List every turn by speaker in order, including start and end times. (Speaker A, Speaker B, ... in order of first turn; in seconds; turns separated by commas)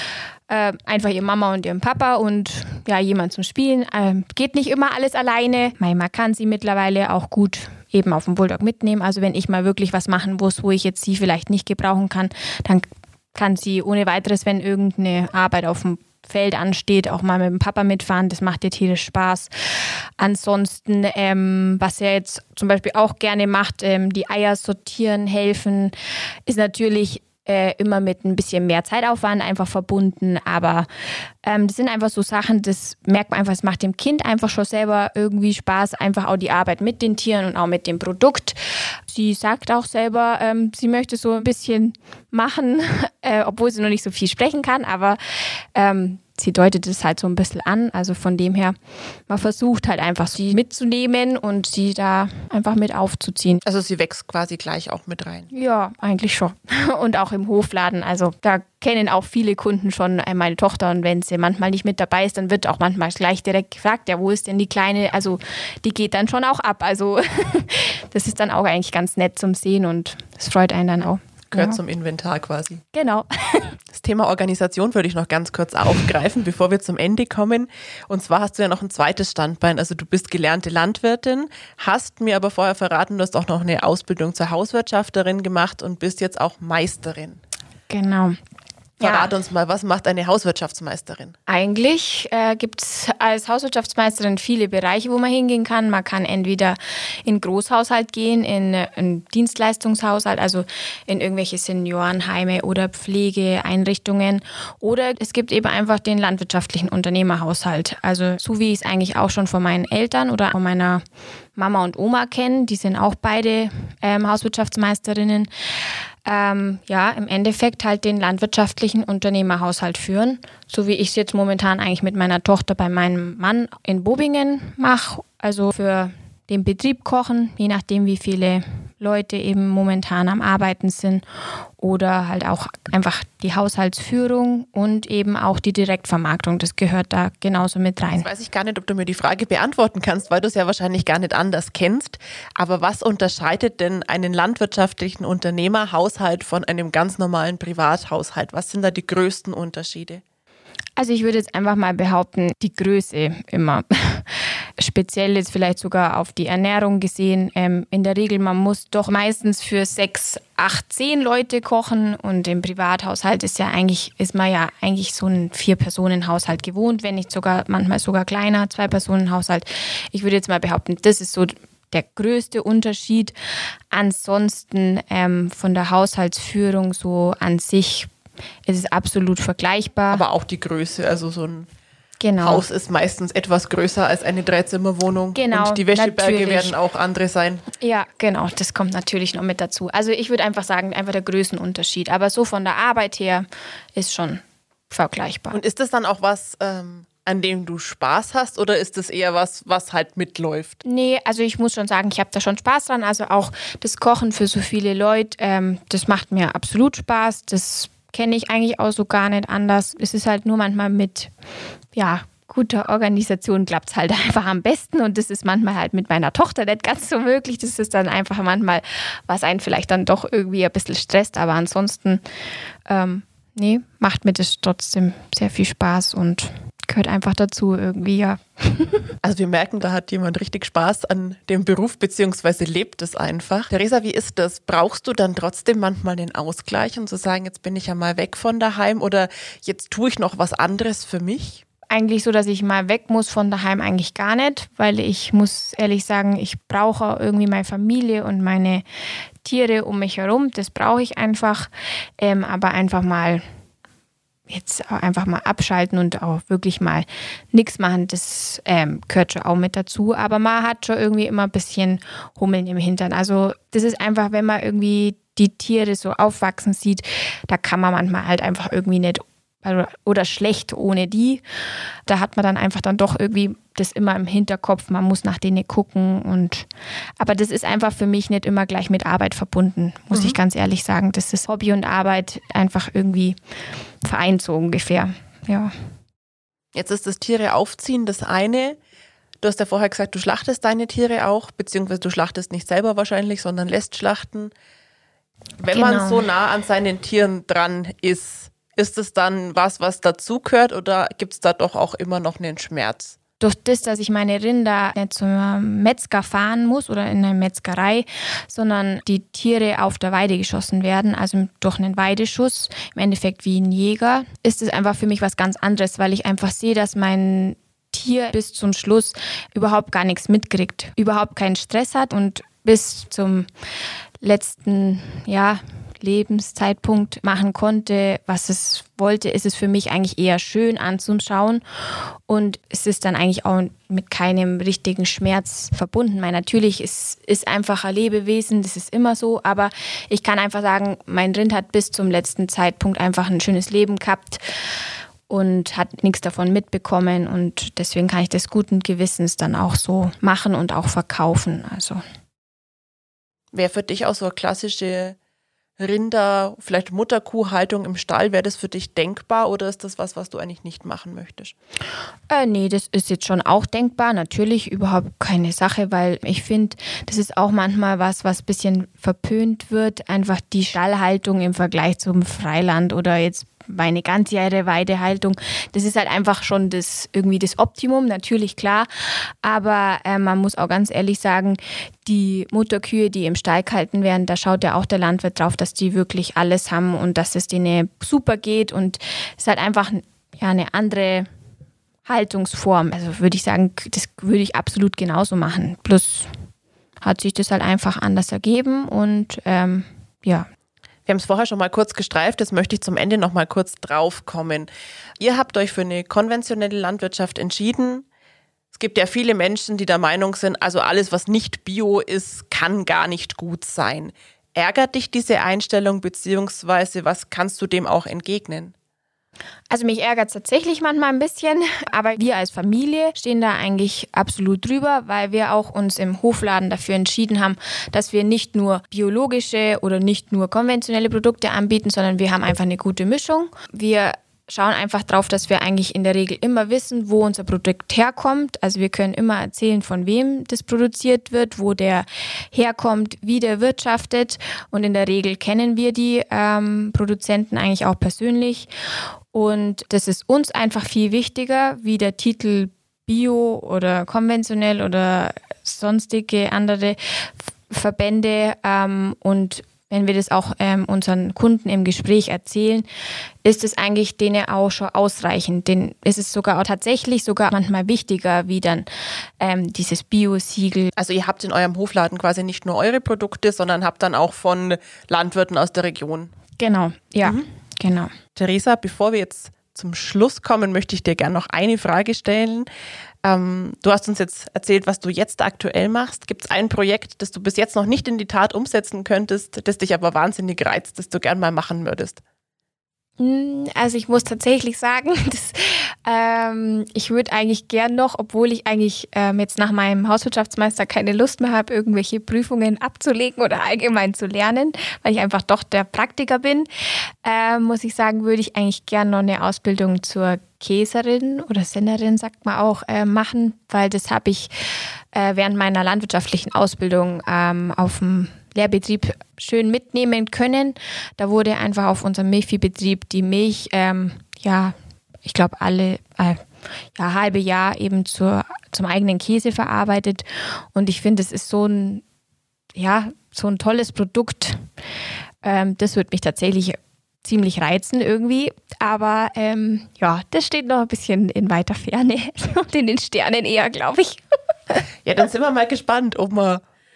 Speaker A: 0.5-19.5, Speaker A: 20.2-25.9, Speaker A: 26.5-30.9, Speaker A: 31.4-48.8, Speaker A: 49.3-53.6, Speaker B: 53.6-55.5, Speaker A: 55.5-71.8, Speaker B: 71.5-72.8, Speaker A: 72.9-73.8, Speaker B: 73.9-87.4, Speaker A: 87.9-88.4, Speaker A: 89.0-89.3, Speaker B: 89.0-91.4, Speaker A: 91.5-111.0, Speaker A: 111.6-115.5, Speaker A: 116.2-131.2, Speaker A: 131.8-138.3, Speaker B: 138.2-150.2, Speaker A: 151.0-173.3, Speaker A: 173.9-178.1, Speaker A: 178.7-180.2, Speaker B: 180.1-181.7, Speaker A: 182.2-182.6, Speaker B: 182.4-187.7, Speaker A: 185.3-186.8, Speaker A: 187.8-195.6, Speaker B: 195.5-200.8, Speaker A: 200.8-211.3, Speaker A: 211.9-222.2, Speaker A: 222.9-229.1, Speaker B: 229.2-241.6, Speaker A: 241.9-248.8, Speaker A: 249.4-253.4, Speaker A: 254.5-271.4, Speaker A: 272.1-276.7, Speaker A: 277.2-283.4, Speaker A: 284.0-285.7, Speaker B: 286.7-288.8, Speaker B: 289.4-294.5, Speaker B: 295.6-303.2, Speaker A: 295.7-296.3, Speaker A: 303.4-323.5, Speaker A: 324.2-331.6, Speaker A: 332.3-344.4, Speaker A: 345.3-352.0, Speaker B: 353.5-355.2, Speaker B: 355.8-361.5, Speaker A: 362.3-391.3, Speaker A: 392.1-396.3, Speaker A: 397.0-400.5, Speaker B: 401.1-404.7, Speaker B: 405.2-408.1, Speaker B: 408.7-418.7, Speaker A: 419.7-448.7, Speaker A: 449.3-462.9, Speaker A: 463.4-468.9, Speaker A: 469.4-470.9, Speaker B: 470.9-476.3, Speaker A: 476.6-478.1, Speaker B: 478.4-482.7, Speaker B: 483.2-492.2, Speaker A: 493.2-506.7, Speaker A: 507.2-514.5, Speaker A: 515.1-532.0, Speaker A: 532.8-534.7, Speaker A: 535.4-544.8, Speaker B: 545.0-546.6